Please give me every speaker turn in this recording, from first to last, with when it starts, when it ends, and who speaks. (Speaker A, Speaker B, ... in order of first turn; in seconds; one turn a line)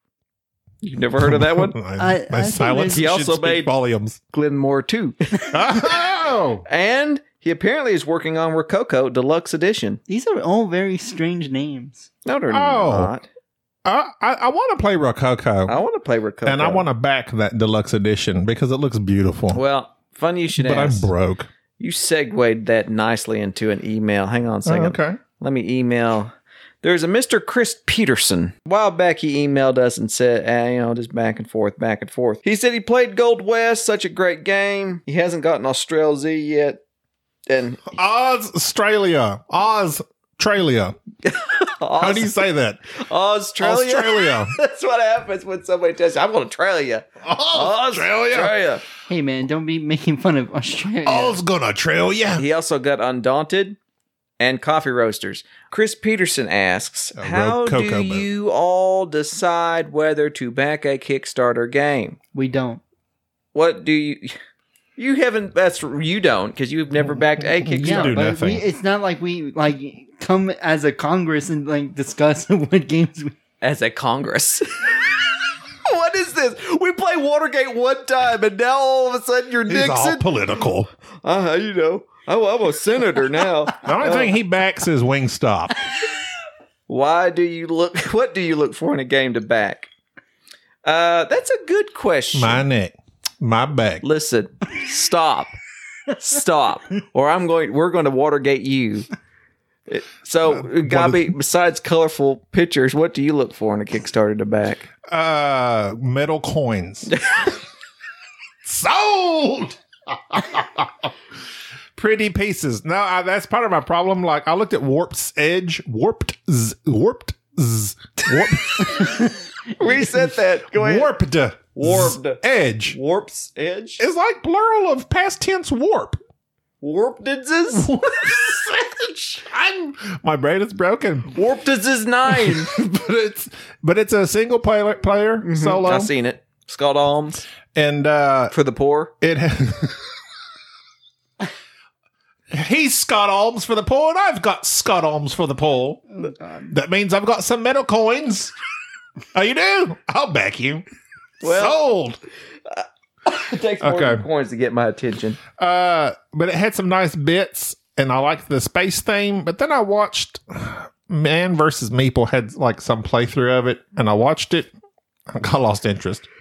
Speaker A: 0.8-1.8
Speaker B: 1.2-4.2
Speaker C: 2.0-3.0
Speaker A: 2.9-3.7
Speaker A: 4.3-5.5
Speaker B: 5.5-6.7
Speaker A: 6.7-10.0
Speaker C: 10.1-12.1
Speaker A: 12.2-13.3
Speaker B: 12.5-13.1
Speaker B: 13.8-15.8
Speaker A: 15.7-16.9
Speaker B: 16.4-19.6
Speaker A: 19.5-21.1
Speaker B: 20.6-21.5
Speaker A: 21.8-36.8
Speaker B: 24.7-25.2
Speaker A: 37.5-37.9
Speaker B: 37.9-41.0
Speaker A: 41.2-42.4
Speaker B: 42.0-42.8
Speaker A: 42.9-48.8
Speaker B: 43.6-44.5
Speaker B: 47.2-48.5
Speaker C: 49.1-51.4
Speaker B: 51.0-52.4
Speaker A: 52.4-53.8
Speaker A: 54.4-62.2
Speaker B: 57.2-58.3
Speaker C: 62.3-62.8
Speaker A: 63.5-64.4
Speaker A: 65.0-68.2
Speaker B: 67.6-68.7
Speaker C: 67.8-73.3
Speaker A: 73.6-80.7
Speaker B: 79.7-80.9
Speaker A: 81.2-84.3
Speaker B: 83.8-85.8
Speaker A: 86.9-89.9
Speaker A: 90.8-92.6
Speaker B: 92.3-94.0
Speaker A: 94.0-95.6
Speaker A: 96.1-99.1
Speaker A: 99.9-104.8
Speaker B: 100.5-101.3
Speaker B: 105.1-107.2
Speaker A: 107.1-107.5
Speaker B: 108.7-111.1
Speaker B: 112.0-119.3
Speaker A: 119.8-121.1
Speaker B: 120.7-123.0
Speaker A: 121.8-124.0
Speaker B: 124.0-126.2
Speaker A: 126.8-128.3
Speaker B: 127.7-131.4
Speaker A: 131.3-132.7
Speaker B: 132.3-136.1
Speaker A: 135.4-137.4
Speaker B: 137.7-138.5
Speaker A: 138.5-139.1
Speaker B: 139.2-140.0
Speaker B: 142.5-148.5
Speaker C: 146.2-146.7
Speaker B: 149.3-150.8
Speaker A: 151.4-151.8
Speaker B: 151.4-152.2
Speaker A: 152.7-155.4
Speaker B: 153.8-154.2
Speaker B: 155.6-164.7
Speaker B: 165.3-166.3